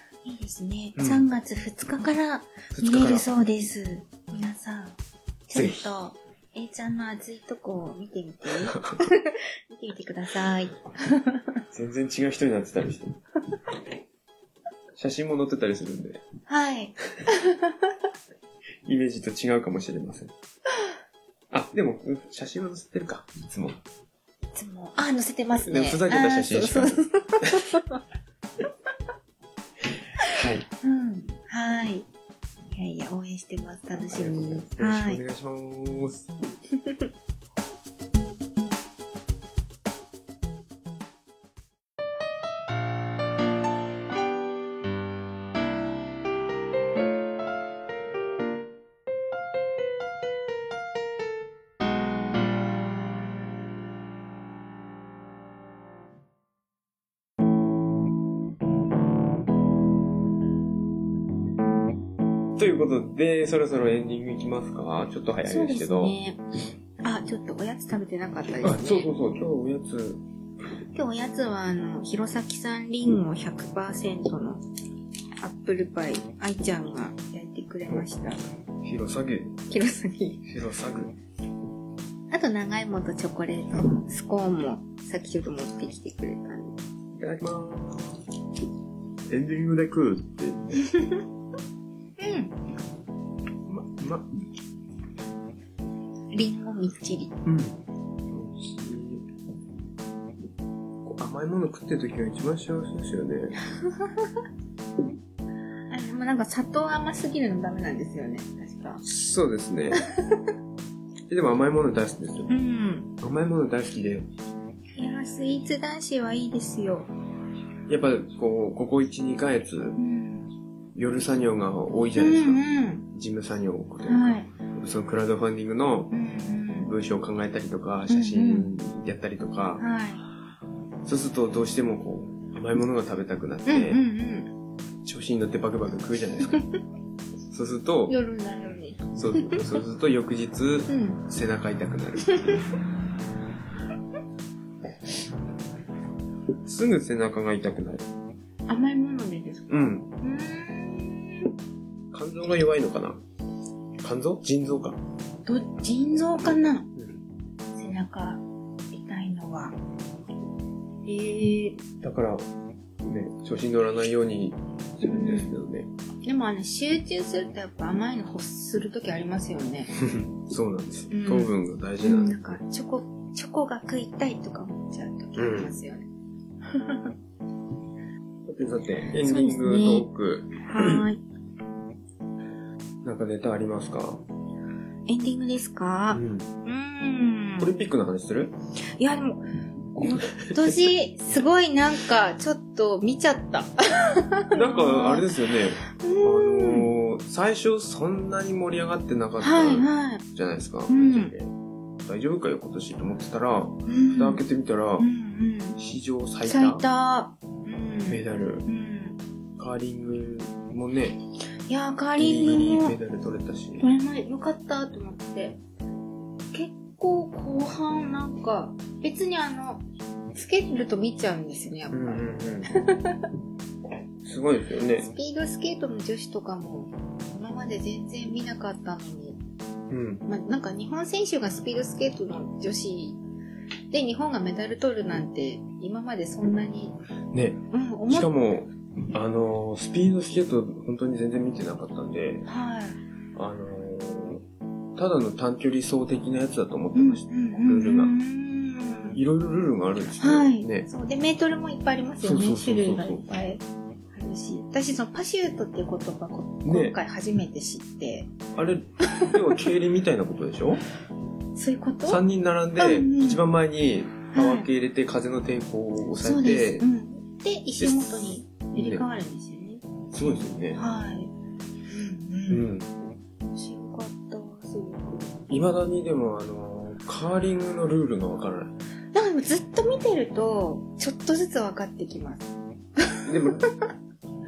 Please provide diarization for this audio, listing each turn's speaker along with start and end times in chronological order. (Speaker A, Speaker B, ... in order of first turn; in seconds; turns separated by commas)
Speaker A: 0.2-11.6, Speaker B: 1.0-1.3, Speaker B: 2.7-3.3, Speaker B: 5.5-5.9, Speaker B: 8.5-9.0, Speaker B: 11.7-13.2, Speaker B: 14.9-16.2, Speaker A: 16.5-17.9, Speaker B: 18.9-20.3, Speaker B: 21.5-23.8, Speaker A: 24.5-28.0, Speaker B: 25.6-27.6, Speaker A: 30.2-32.0, Speaker B: 30.3-30.6, Speaker A: 32.7-35.2, Speaker B: 33.9-36.3, Speaker A: 36.7-37.1, Speaker B: 62.6-66.2, Speaker A: 65.4-66.4, Speaker A: 67.0-69.0, Speaker B: 68.6-70.2, Speaker A: 70.9-74.6, Speaker A: 75.4-78.4, Speaker B: 78.8-79.6, Speaker A: 79.7-80.4, Speaker B: 80.5-81.1, Speaker A: 82.3-86.8, Speaker B: 87.2-88.2, Speaker B: 89.3-90.9, Speaker A: 92.2-92.5, Speaker B: 93.7-94.3, Speaker A: 96.3-97.3, Speaker B: 97.4-97.8, Speaker B: 98.3-99.2, Speaker B: 101.0-103.6, Speaker A: 103.7-104.4, Speaker A: 105.9-109.0, Speaker B: 109.0-110.0, Speaker A: 110.2-110.5, Speaker B: 111.3-112.5, Speaker A: 112.5-113.1, Speaker B: 113.2-114.3, Speaker A: 115.0-117.1, Speaker B: 117.9-120.0, Speaker A: 120.0-120.5, Speaker B: 121.0-126.1, Speaker A: 122.1-123.0, Speaker A: 124.0-124.5, Speaker A: 126.1-126.9, Speaker B: 126.8-129.8, Speaker A: 128.1-128.7, Speaker A: 129.8-130.2, Speaker B: 131.0-134.0, Speaker A: 133.7-134.5, Speaker B: 135.0-136.6, Speaker B: 137.5-138.2, Speaker A: 138.1-139.7, Speaker B: 139.1-142.7, Speaker A: 140.9-141.2, Speaker A: 142.3-142.6, Speaker B: 146.6-148.1, Speaker A: 148.7-151.5, Speaker B: 149.7-150.1, Speaker B: 152.1-153.2, Speaker B: 154.0-155.0, Speaker A: 155.4-156.9, Speaker B: 156.4-157.2, Speaker A: 157.7-159.8, Speaker A: 161.0-161.8, Speaker B: 162.0-162.4, Speaker B: 163.0-165.9, Speaker A: 165.0-165.5, Speaker A: 166.2-169.9, Speaker B: 170.0-172.6, Speaker A: 171.1-176.1, Speaker B: 175.3-175.7, Speaker A: 176.6-177.1, Speaker B: 178.5-181.0, Speaker A: 179.2-180.1, Speaker A: 180.6-181.2, Speaker B: 183.0-184.2, Speaker A: 185.1-187.7, Speaker B: 186.1-186.5, Speaker B: 187.6-188.5, Speaker A: 189.0-195.3, Speaker B: 190.1-190.8, Speaker B: 194.5-201.5, Speaker A: 195.9-196.9, Speaker A: 199.4-200.2, Speaker A: 200.9-201.3, Speaker B: 202.0-205.1, Speaker A: 203.9-204.4, Speaker A: 205.0-205.8, Speaker B: 205.8-206.8, Speaker A: 206.4-209.2, Speaker B: 208.1-208.7, Speaker B: 209.6-211.2, Speaker A: 211.7-213.0, Speaker B: 212.2-213.9, Speaker A: 213.8-215.6, Speaker A: 216.5-223.3, Speaker B: 221.9-222.7, Speaker B: 224.2-225.1, Speaker A: 225.0-229.4, Speaker B: 229.9-230.2, Speaker A: 230.2-233.2, Speaker A: 233.9-237.0, Speaker B: 237.3-242.5, Speaker A: 237.7-238.3, Speaker A: 242.4-243.0, Speaker B: 243.3-244.4, Speaker B: 245.0-248.2, Speaker A: 246.9-249.2, Speaker B: 249.1-250.9, Speaker A: 250.2-258.3, Speaker B: 252.2-253.2, Speaker B: 256.6-257.0, Speaker B: 258.5-260.8, Speaker A: 259.1-259.4, Speaker A: 261.5-262.2, Speaker B: 262.1-266.8, Speaker A: 262.8-263.4, Speaker A: 264.3-264.7, Speaker A: 266.2-271.3, Speaker B: 267.8-269.0, Speaker B: 270.1-270.8, Speaker A: 271.9-272.6, Speaker B: 272.5-272.9, Speaker A: 273.4-275.4, Speaker B: 275.5-278.7, Speaker A: 279.1-283.3, Speaker B: 283.2-283.7